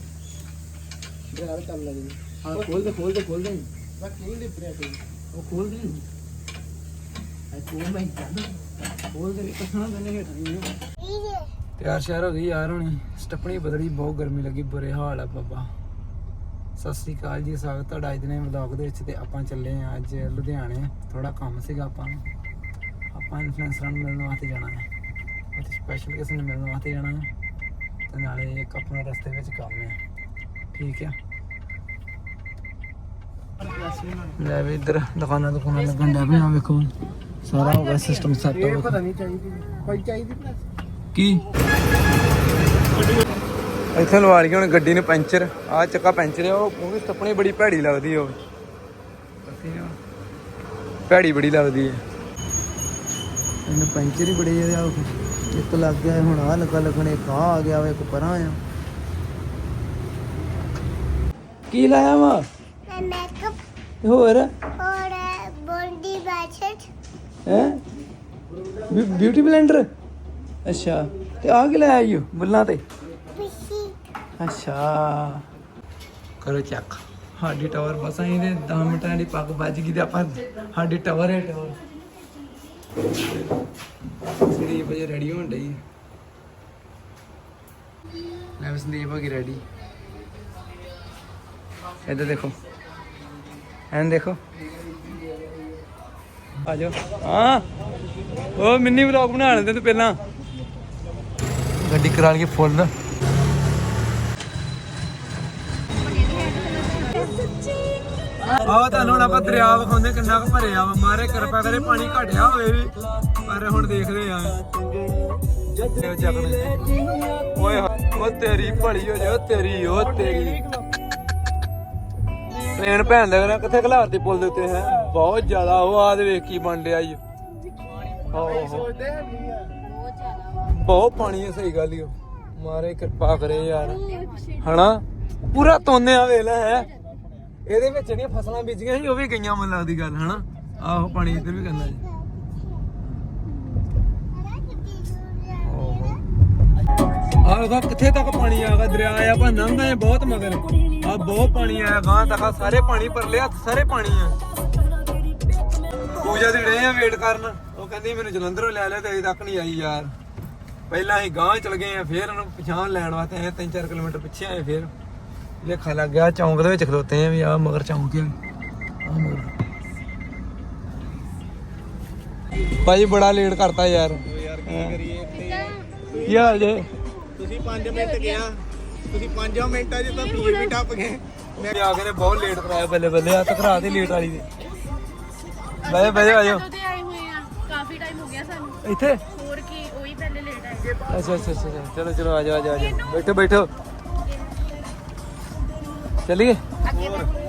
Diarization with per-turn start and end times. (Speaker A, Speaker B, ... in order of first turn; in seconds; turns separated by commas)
Speaker A: 2.4-3.7, Speaker A: 5.3-6.0, Speaker A: 7.5-8.5, Speaker A: 9.1-10.7, Speaker B: 11.0-11.4, Speaker A: 11.8-15.7, Speaker A: 16.8-22.2, Speaker A: 23.1-24.9, Speaker A: 25.5-27.3, Speaker A: 28.1-30.0, Speaker A: 30.7-31.1, Speaker A: 34.4-36.9, Speaker A: 37.4-39.1, Speaker A: 41.1-41.4, Speaker A: 43.9-48.4, Speaker A: 49.4-50.0, Speaker A: 51.1-52.0, Speaker A: 53.6-58.6, Speaker A: 61.7-62.4, Speaker B: 62.9-63.5, Speaker A: 64.0-64.5, Speaker B: 64.8-66.9, Speaker A: 67.5-67.8, Speaker A: 68.9-69.9, Speaker A: 70.6-72.8, Speaker B: 73.3-73.9, Speaker A: 74.4-75.4, Speaker A: 76.4-81.8, Speaker A: 84.4-85.8, Speaker A: 88.6-89.6, Speaker A: 92.0-92.5, Speaker A: 93.9-94.4, Speaker A: 96.6-97.6, Speaker A: 98.6-100.2, Speaker A: 101.8-102.9, Speaker C: 106.2-107.1, Speaker A: 108.6-112.9, Speaker A: 113.5-114.6, Speaker A: 115.9-116.8, Speaker A: 117.5-120.6, Speaker A: 122.8-127.2, Speaker A: 128.3-128.9, Speaker C: 129.8-130.4, Speaker A: 130.7-134.0, Speaker C: 133.7-134.6, Speaker A: 134.6-136.9, Speaker A: 137.7-142.0, Speaker A: 145.6-146.2, Speaker A: 147.4-154.3, Speaker A: 156.2-160.1, Speaker A: 160.9-164.9, Speaker A: 165.6-168.3, Speaker A: 169.0-169.5, Speaker A: 172.8-175.0, Speaker D: 174.3-176.4, Speaker C: 175.3-175.8, Speaker A: 176.2-176.9, Speaker D: 177.4-178.6, Speaker C: 177.9-178.4, Speaker D: 179.1-181.7, Speaker C: 180.2-180.7, Speaker A: 181.7-184.4, Speaker A: 185.8-186.6, Speaker C: 185.8-188.8, Speaker A: 188.8-189.2, Speaker C: 189.3-191.5, Speaker A: 191.1-193.7, Speaker C: 192.7-193.3, Speaker A: 196.2-196.6, Speaker C: 196.8-197.3